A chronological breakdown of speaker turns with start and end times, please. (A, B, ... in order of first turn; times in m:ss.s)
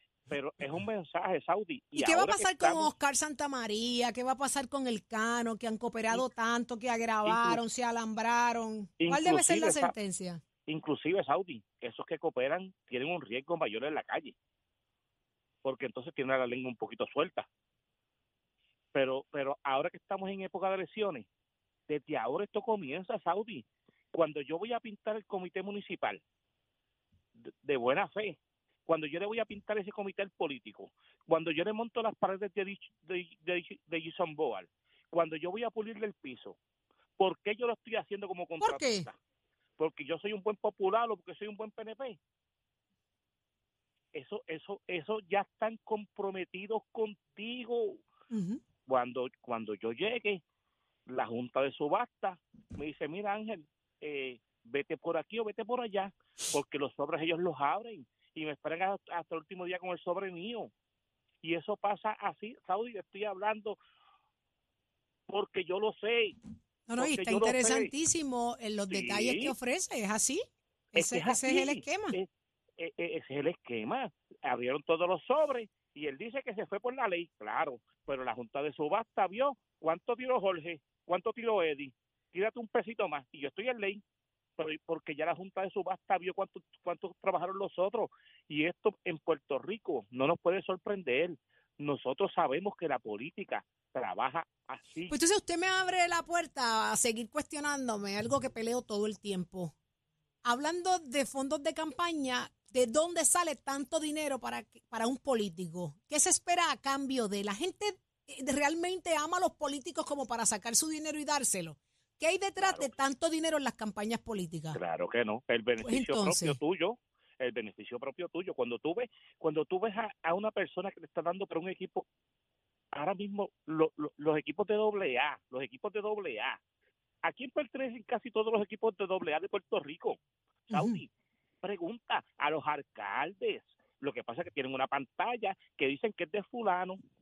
0:00.3-0:02.9 A
0:01.9-0:10.4 B
0:07.2-0:07.6 A
0:09.0-0:09.9 A
0:10.7-0:14.3 A
0:15.6-0:17.5 A
0:18.9-0:21.3 A
0:21.9-0:26.2 A
0:27.4-0:36.6 A
0:37.2-0:39.2 A
0:38.6-0:39.1 B
0:39.8-0:42.2 A
0:44.1-0:48.0 A
0:48.3-0:48.6 B
0:48.8-0:50.4 A
0:51.1-1:00.7 A
1:01.4-1:03.8 A
1:05.3-1:06.4 A
1:06.9-1:12.2 B
1:07.0-1:07.9 A
1:08.9-1:09.5 A
1:10.9-1:24.0 A
1:24.6-1:35.1 A
1:35.1-1:39.7 B
1:40.4-1:54.8 B
1:52.6-1:52.9 A
1:54.7-2:02.0 A
1:55.8-1:56.6 B
2:02.9-2:06.6 A
2:07.2-2:10.2 A
2:10.7-2:11.0 B
2:10.7-2:11.1 A
2:11.6-2:17.0 A